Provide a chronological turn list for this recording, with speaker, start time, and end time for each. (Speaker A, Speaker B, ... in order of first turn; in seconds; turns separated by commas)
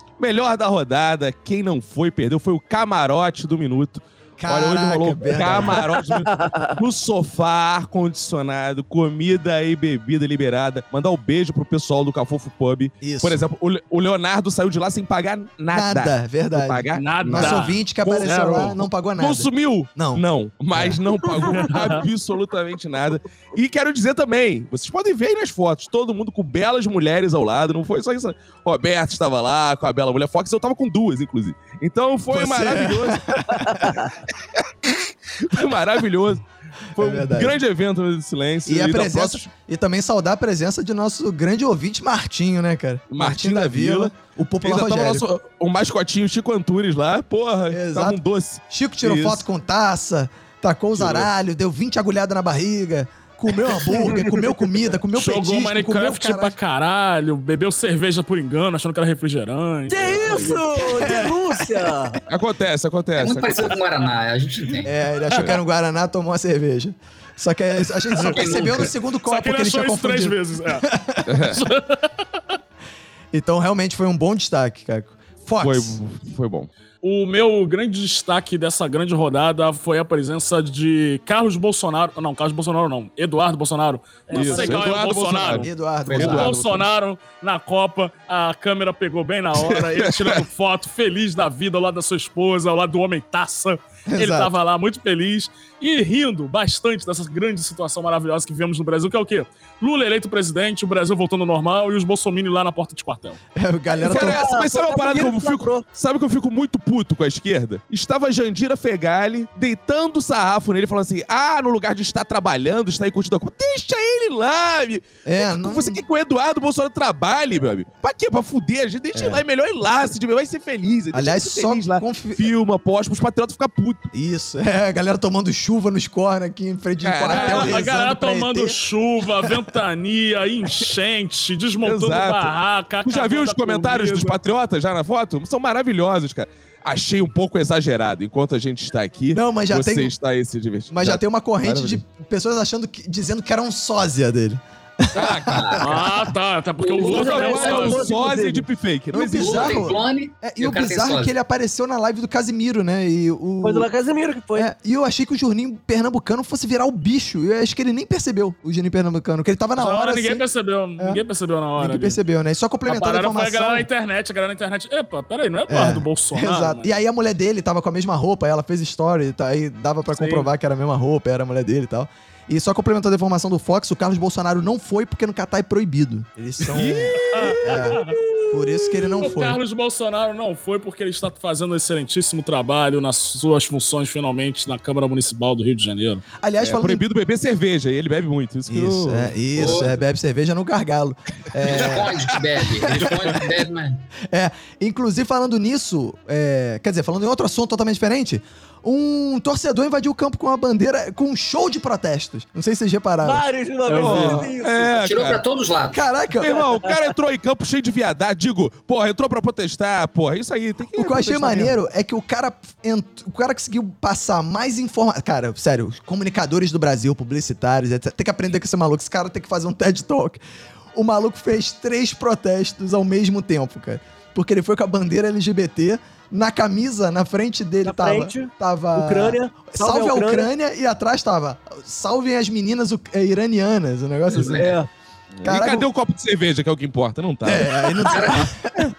Speaker A: 0.2-18.4, Speaker B: 4.4-5.8, Speaker C: 6.2-6.8, Speaker B: 13.0-13.4, Speaker B: 15.7-21.0, Speaker D: 16.9-18.9, Speaker A: 19.2-33.8, Speaker B: 32.3-34.1, Speaker A: 34.5-36.4, Speaker B: 37.0-37.6, Speaker A: 37.0-39.5, Speaker B: 38.7-45.3, Speaker A: 43.1-49.4, Speaker B: 47.7-56.6, Speaker A: 51.0-51.3, Speaker C: 53.9-54.5, Speaker D: 55.1-60.7, Speaker C: 59.9-62.2, Speaker B: 60.9-61.6, Speaker A: 62.3-63.8, Speaker E: 63.2-64.9, Speaker B: 64.8-71.5, Speaker A: 65.3-65.6, Speaker D: 68.2-68.7, Speaker E: 68.2-69.0, Speaker D: 69.2-70.9, Speaker A: 71.3-71.6, Speaker D: 71.5-72.2, Speaker B: 73.3-76.0, Speaker A: 75.6-76.7, Speaker D: 77.0-103.4, Speaker C: 84.3-84.9, Speaker A: 84.3-86.8, Speaker B: 85.5-86.8, Speaker A: 89.6-90.4, Speaker B: 94.1-94.5, Speaker B: 103.5-104.5, Speaker C: 104.0-105.8, Speaker A: 104.0-124.1, Speaker B: 115.2-116.0, Speaker B: 119.1-119.4, Speaker B: 121.1-122.5, Speaker B: 124.1-128.8, Speaker A: 127.0-128.0, Speaker D: 127.3-134.4, Speaker A: 131.8-132.5, Speaker A: 133.0-142.0, Speaker B: 139.3-140.1, Speaker B: 140.9-146.3, Speaker A: 145.1-145.8, Speaker E: 145.2-146.0, Speaker D: 145.8-148.1, Speaker E: 146.8-148.0, Speaker C: 147.0-148.7, Speaker A: 147.0-149.9, Speaker B: 149.1-153.9, Speaker E: 149.3-151.3, Speaker C: 153.6-154.7, Speaker B: 154.6-160.4, Speaker D: 159.8-162.2, Speaker B: 161.8-163.9, Speaker D: 162.9-166.9, Speaker B: 165.7-179.6, Speaker D: 170.2-170.5, Speaker A: 176.7-177.8, Speaker D: 177.2-186.3, Speaker B: 186.4-187.1, Speaker A: 186.6-189.9, Speaker B: 188.7-192.1, Speaker E: 189.6-189.9, Speaker E: 191.6-194.0, Speaker A: 191.7-193.4, Speaker B: 192.8-193.4, Speaker B: 194.3-203.4, Speaker C: 203.2-205.0, Speaker D: 203.9-204.5, Speaker A: 203.9-205.4, Speaker E: 205.0-206.1, Speaker B: 205.9-206.6, Speaker A: 206.4-211.7, Speaker C: 206.4-206.9, Speaker B: 210.9-220.4, Speaker B: 220.9-234.8, Speaker C: 227.8-230.5, Speaker E: 234.3-234.7, Speaker C: 234.5-234.9, Speaker A: 235.3-237.7, Speaker B: 235.4-235.9, Speaker B: 237.4-238.8, Speaker C: 238.1-238.3, Speaker E: 238.1-238.5